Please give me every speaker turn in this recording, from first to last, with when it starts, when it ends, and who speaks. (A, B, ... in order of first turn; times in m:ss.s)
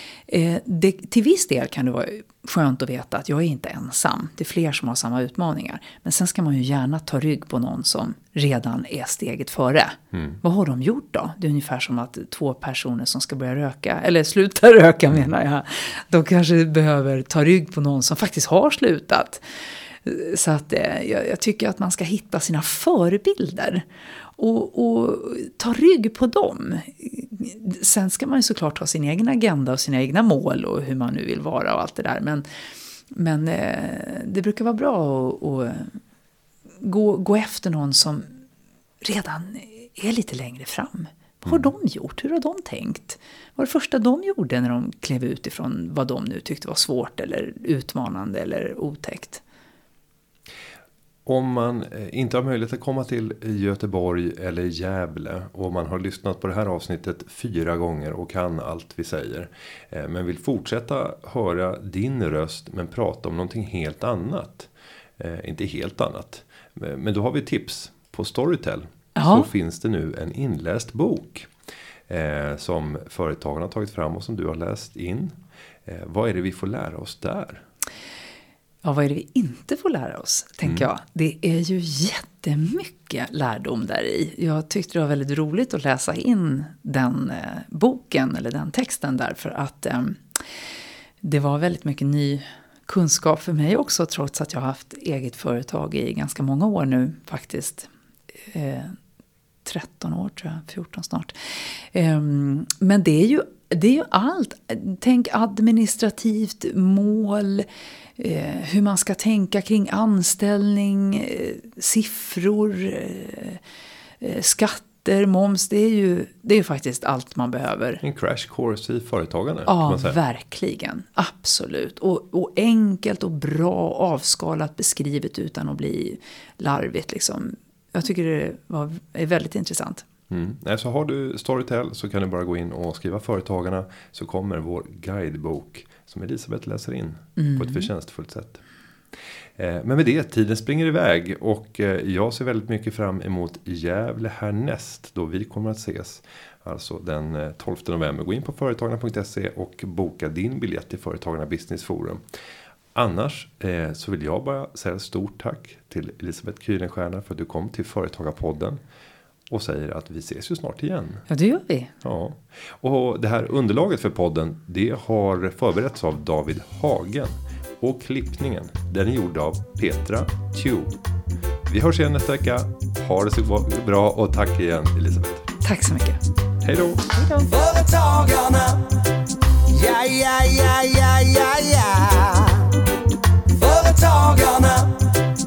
0:00.3-0:19.4 A
0:10.1-0:10.4 B
0:20.0-0:23.8 A
0:24.4-0:32.4 A
0:33.1-0:36.0 A
0:36.8-0:38.3 A
0:39.0-0:49.4 A
0:51.3-1:11.5 B
1:09.2-1:09.5 A
1:12.1-1:17.6 B
1:18.8-1:30.4 A
1:31.2-1:37.9 A
1:38.5-1:39.0 A
1:39.6-1:47.7 A
1:48.2-1:53.6 A
1:54.2-1:58.0 A
1:58.0-2:00.2 B
1:59.7-2:10.0 A
2:10.3-2:18.6 B
2:17.4-2:17.9 A
2:19.6-2:32.2 B
2:33.0-2:38.8 B
2:39.5-2:41.2 B
2:41.3-2:41.9 A
2:42.0-2:51.0 B
2:51.7-2:55.5 B
2:55.6-2:56.2 A
2:56.6-2:57.1 B
2:57.4-2:58.9 C
2:59.7-3:02.8 C
3:03.5-3:04.9 C